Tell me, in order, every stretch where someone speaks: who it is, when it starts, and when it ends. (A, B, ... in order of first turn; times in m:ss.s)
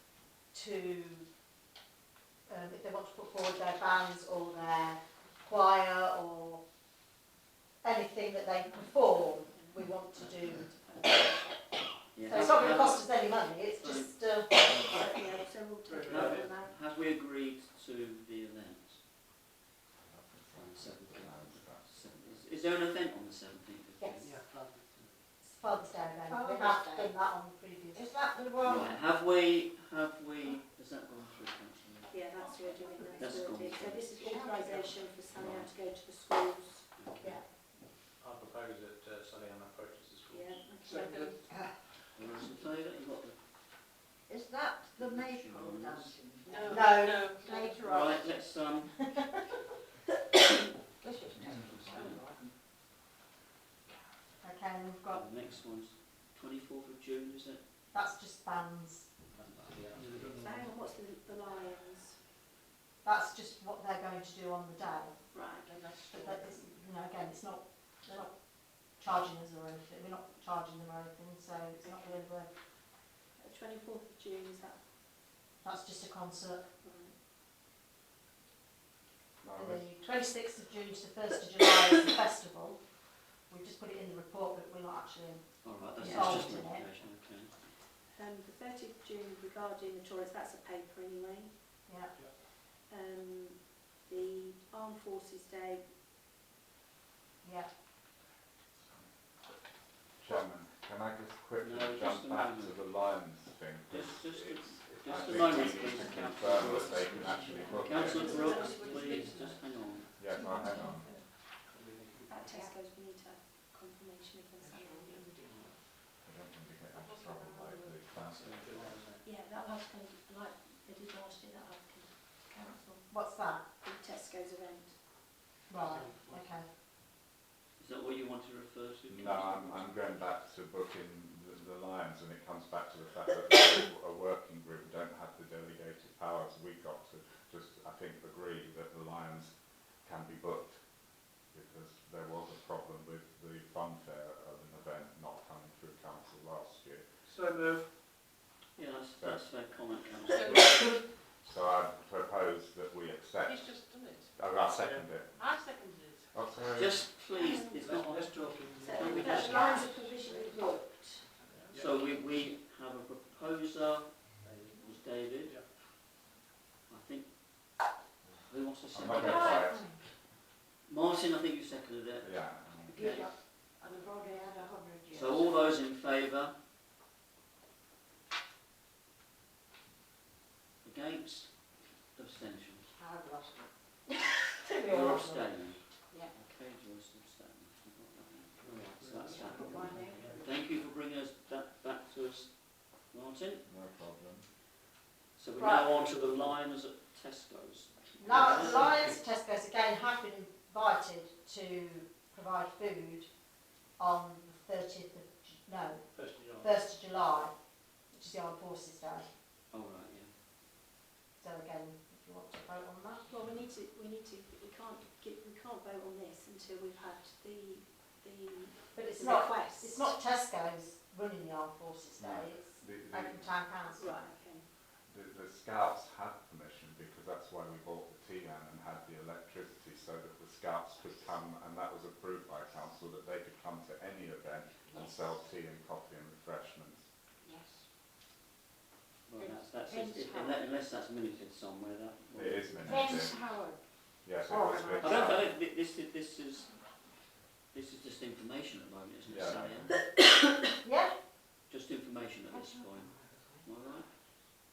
0:00.5-0:01.3 A
0:02.5-0:06.6 A
0:07.8-0:11.6 A
0:09.5-0:09.9 B
0:12.2-0:14.3 C
0:12.2-0:15.0 A
0:14.7-0:16.8 B
0:15.9-0:16.5 D
0:16.1-0:19.0 C
0:20.0-0:21.9 E
0:20.5-0:24.4 C
0:24.2-0:25.1 D
0:25.4-0:28.1 A
0:26.3-0:27.2 F
0:27.9-0:29.0 F
0:28.6-0:32.1 C
0:32.1-0:36.9 B
0:32.4-0:33.1 G
0:33.2-0:34.1 C
0:34.1-0:35.0 F
0:35.3-0:35.7 C
0:37.0-0:37.4 C
0:38.2-0:41.0 D
0:40.3-0:41.4 B
0:41.2-0:41.7 F
0:42.2-0:43.4 C
0:44.3-0:48.2 F
0:44.9-0:46.2 C
0:46.5-0:47.8 G
0:46.7-0:47.4 A
0:47.8-0:49.3 C
0:51.0-0:52.0 F
0:51.7-0:52.2 C
0:54.4-0:55.2 A
0:55.1-0:57.6 C
0:57.9-0:59.1 A
0:59.3-1:00.6 D
1:00.3-1:02.2 B
1:03.0-1:05.2 A
1:05.3-1:05.8 B
1:05.7-1:06.4 G
1:06.1-1:12.5 A
1:11.8-1:12.2 B
1:13.4-1:14.8 B
1:15.6-1:16.7 A
1:16.8-1:17.2 B
1:19.4-1:19.9 E
1:19.4-1:22.8 A
1:23.5-1:25.4 A
1:25.6-1:27.5 C
1:26.0-1:26.9 A
1:26.0-1:26.5 B
1:28.1-1:31.5 B
1:31.9-1:32.1 A
1:32.8-1:35.8 B
1:37.4-1:37.7 A
1:38.9-1:39.5 E
1:40.2-1:48.5 E
1:41.6-1:42.9 C
1:43.9-1:50.2 C
1:46.6-1:47.8 D
1:47.5-1:49.0 B
1:48.0-1:49.4 G
1:48.2-1:49.3 F
1:50.2-1:51.2 E
1:50.4-1:51.1 B
1:51.6-1:52.6 D
1:52.3-1:55.4 B
1:56.2-1:59.0 E
1:57.0-1:58.2 G
1:58.3-1:59.2 D
1:59.2-2:05.0 B
2:03.1-2:03.6 A
2:05.7-2:06.7 A
2:05.8-2:06.4 D
2:07.8-2:10.1 C
2:09.1-2:27.1 E
2:27.3-2:27.9 D
2:28.8-2:31.0 C
2:29.2-2:29.4 E
2:30.3-2:30.6 G
2:30.7-2:33.8 E
2:33.4-2:34.3 G
2:34.4-2:35.7 E
2:34.7-2:35.1 D
2:35.4-2:36.3 G
2:36.3-2:37.1 E
2:36.8-2:39.8 C
2:37.4-2:37.8 B
2:37.7-2:40.0 D
2:38.7-2:41.3 B
2:39.3-2:41.0 F
2:41.5-2:42.0 D
2:41.8-2:45.6 C
2:44.4-2:44.8 D
2:46.9-2:47.3 C
2:48.5-2:49.8 C
2:48.9-2:49.9 E
2:49.5-2:49.8 A
2:50.9-2:53.3 C
2:52.2-2:53.0 E
2:52.9-2:55.8 F
2:55.1-2:56.5 C
3:00.8-3:02.9 C
3:03.0-3:05.5 F
3:04.8-3:13.7 C
3:08.6-3:10.5 D
3:09.2-3:10.5 F
3:13.7-3:14.5 E
3:15.4-3:19.2 C
3:15.6-3:15.9 A
3:18.2-3:23.3 A
3:18.6-3:19.0 D
3:24.0-3:29.3 A
3:26.1-3:26.8 D
3:29.7-3:30.3 C
3:31.4-3:33.3 A
3:33.3-3:40.2 B
3:38.9-3:44.2 A
3:42.2-3:43.7 E
3:43.9-3:44.7 B
3:45.1-3:57.1 E
3:54.9-3:55.3 F
3:57.4-3:57.8 F
3:59.3-4:03.3 C
3:59.4-4:00.6 F
4:02.3-4:03.4 E
4:02.8-4:03.8 F
4:04.2-4:05.5 E
4:04.4-4:05.4 F
4:05.0-4:06.8 C
4:07.7-4:10.0 C
4:09.2-4:10.0 E
4:10.8-4:11.2 A
4:11.7-4:14.1 C
4:12.5-4:13.6 F